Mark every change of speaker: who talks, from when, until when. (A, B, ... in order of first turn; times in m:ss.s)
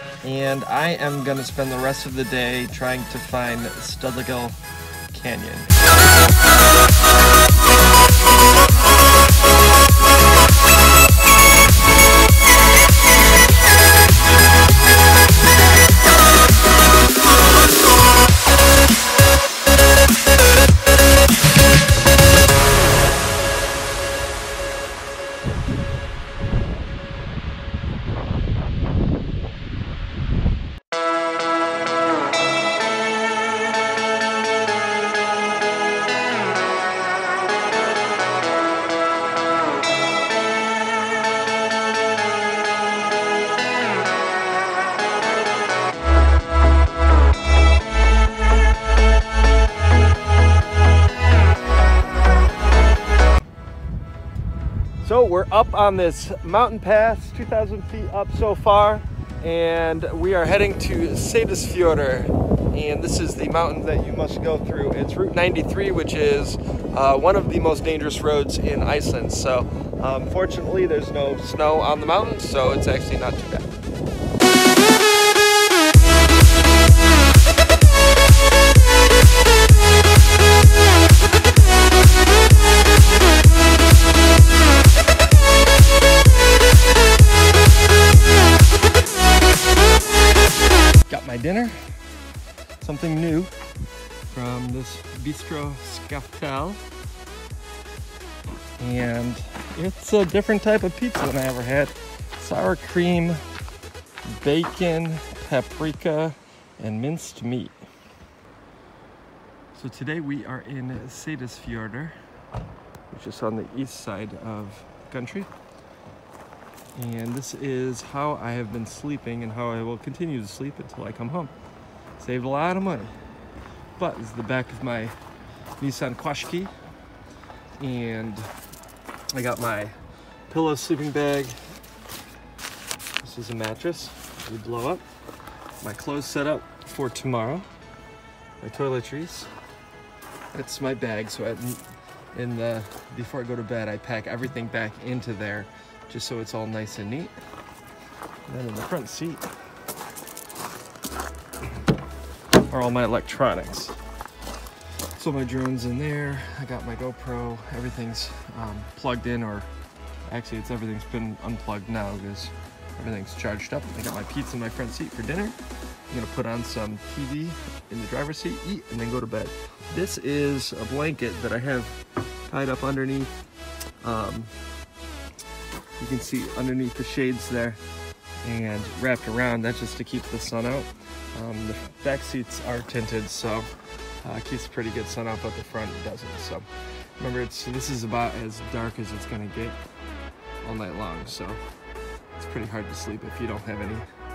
0:00.2-0:05.7 A
0:55.0-1:13.7 A
1:31.1-1:31.9 A
1:32.8-1:33.5 A
1:34.3-1:36.8 A
1:38.8-1:43.4 A
1:44.3-1:47.8 A
1:49.7-1:52.2 A
1:53.1-1:55.5 A
1:57.0-2:01.5 A
2:02.2-2:03.2 A
2:04.0-2:05.2 A
2:05.8-2:06.7 A
2:07.8-2:08.5 A
2:09.3-2:10.0 A
2:10.5-2:11.6 A
2:13.2-2:15.0 A
2:15.8-2:17.7 A
2:18.6-2:19.5 A
2:20.5-2:21.8 A
2:22.3-2:27.3 A
2:28.5-2:29.5 A
2:32.6-2:34.0 A
2:35.2-2:39.7 A
2:40.3-2:45.6 A
2:46.1-2:53.3 A
2:54.0-2:54.5 A
2:56.0-2:57.8 A
2:58.4-3:03.7 A
3:04.2-3:09.8 A
3:10.6-3:11.6 A
3:12.4-3:14.1 A